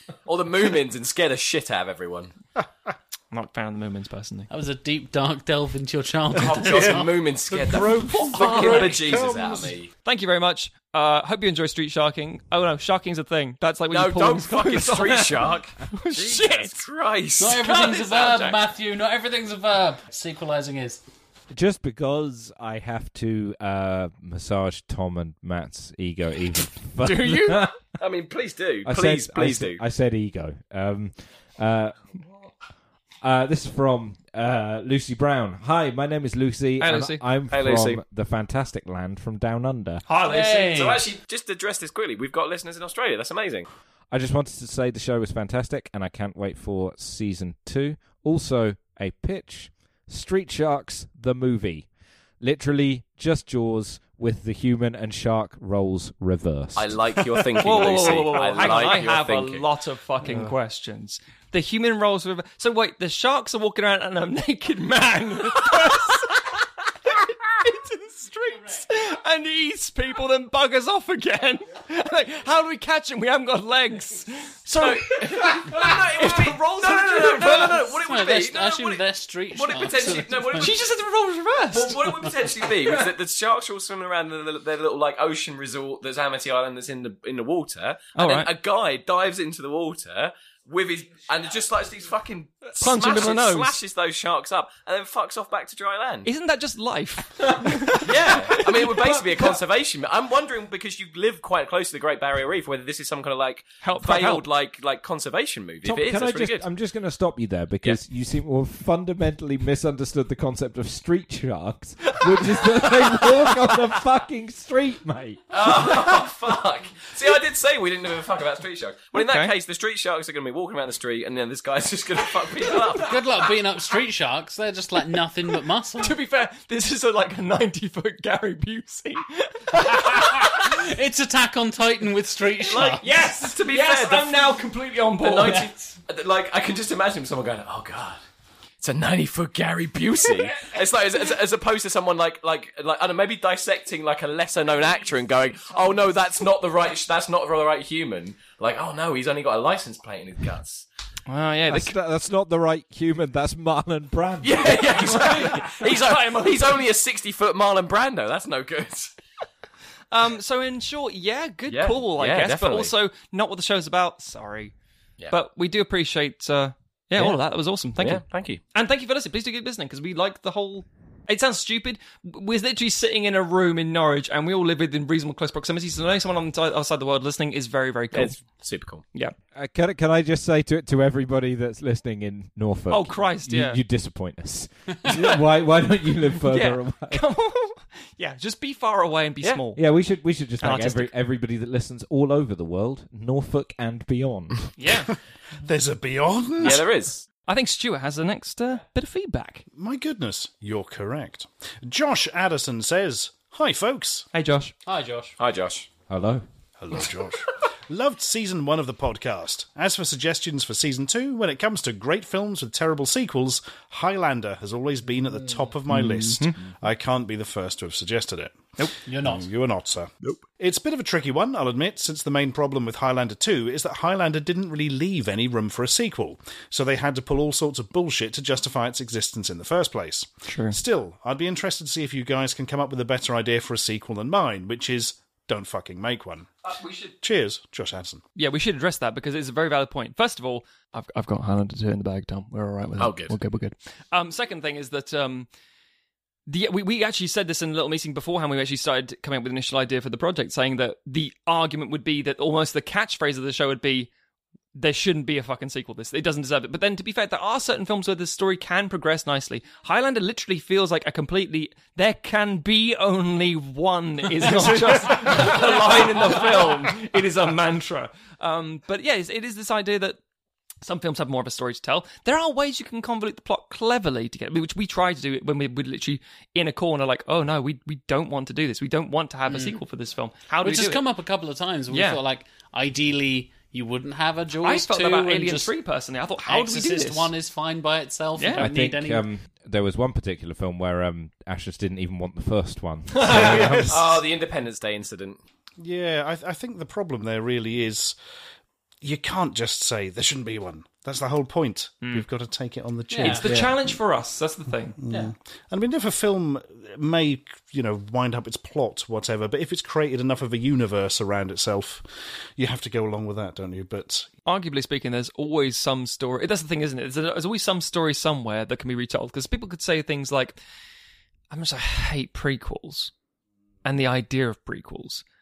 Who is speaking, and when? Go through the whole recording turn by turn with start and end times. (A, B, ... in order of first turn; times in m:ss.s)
0:00.2-0:02.3 A
0:03.3-0:04.5 B
0:04.5-0:07.1 C
0:06.3-0:09.9 A
0:06.6-0:09.7 D
0:08.2-0:09.1 B
0:10.0-0:16.8 B
0:13.9-0:18.5 A
0:17.4-0:21.0 C
0:17.7-0:18.5 B
0:21.5-0:27.8 E
0:27.0-0:29.8 A
0:27.0-0:27.6 B
0:28.8-0:32.0 E
0:33.2-0:40.0 E
0:36.8-0:37.2 B
0:37.5-0:38.0 A
0:40.1-0:41.0 B
0:40.2-0:41.0 C
0:40.7-0:43.7 A
0:44.1-0:51.9 E
0:52.4-0:57.0 E
0:56.7-0:59.6 A
0:57.6-1:17.9 B
1:14.8-1:20.8 A
1:17.4-1:20.7 C
1:20.6-1:22.1 B
1:21.7-1:36.3 A
1:28.1-1:28.5 B
1:32.8-1:33.8 B
1:36.2-1:39.6 B
1:37.9-1:46.6 A
1:43.8-1:44.5 B
1:45.8-1:56.2 E
1:55.5-2:03.2 A
1:59.1-1:59.5 B
2:03.0-2:06.2 C
2:06.0-2:10.8 B
2:09.7-2:13.0 C
2:12.6-2:14.4 A
2:13.0-2:15.7 B
2:15.2-2:18.2 A
2:18.8-2:30.8 A
2:31.3-2:31.9 B
2:31.7-2:34.8 E
2:34.4-2:39.1 A
2:34.6-2:36.8 B
2:40.1-2:44.7 B
2:41.7-2:42.9 A
2:45.3-2:48.2 B
2:48.0-2:48.6 A
2:48.7-2:58.4 B
2:58.1-2:59.0 A
2:59.5-3:07.2 E
3:02.9-3:03.8 B
3:05.0-3:05.4 B
3:06.4-3:09.8 B
3:09.8-3:14.7 E
3:10.6-3:11.1 B
3:14.8-3:15.1 B
3:15.6-3:16.8 D
3:16.6-3:17.2 A
3:17.5-3:19.6 B
3:19.7-3:24.2 D
3:24.3-3:24.7 B
3:24.8-3:25.4 C
3:25.4-3:25.9 A
3:26.1-3:26.4 E
3:26.8-3:38.6 D
3:35.9-3:36.6 B
3:39.0-3:39.5 C
3:39.2-3:56.5 D
3:50.5-3:50.8 B
3:56.6-3:57.1 B
3:57.2-3:58.2 D
3:58.4-4:05.5 B
4:03.0-4:03.3 A
4:06.5-4:14.1 B
4:14.7-4:30.2 B
4:25.5-4:25.8 A
4:30.8-4:41.0 B
4:39.5-4:39.8 C
4:40.6-4:45.7 C
4:41.9-4:42.2 B
4:44.6-4:47.3 B
4:46.4-4:49.2 C
4:48.4-4:48.7 B
4:48.6-4:54.2 E
4:53.1-4:53.5 B
4:53.3-4:55.4 A
4:53.3-4:54.0 D
4:55.8-4:58.2 D
4:59.0-5:03.9 D
5:03.1-5:03.5 C
5:03.2-5:05.0 B
5:05.0-5:14.3 D
5:14.4-5:20.6 B
5:21.5-5:23.1 B
5:23.8-5:25.2 B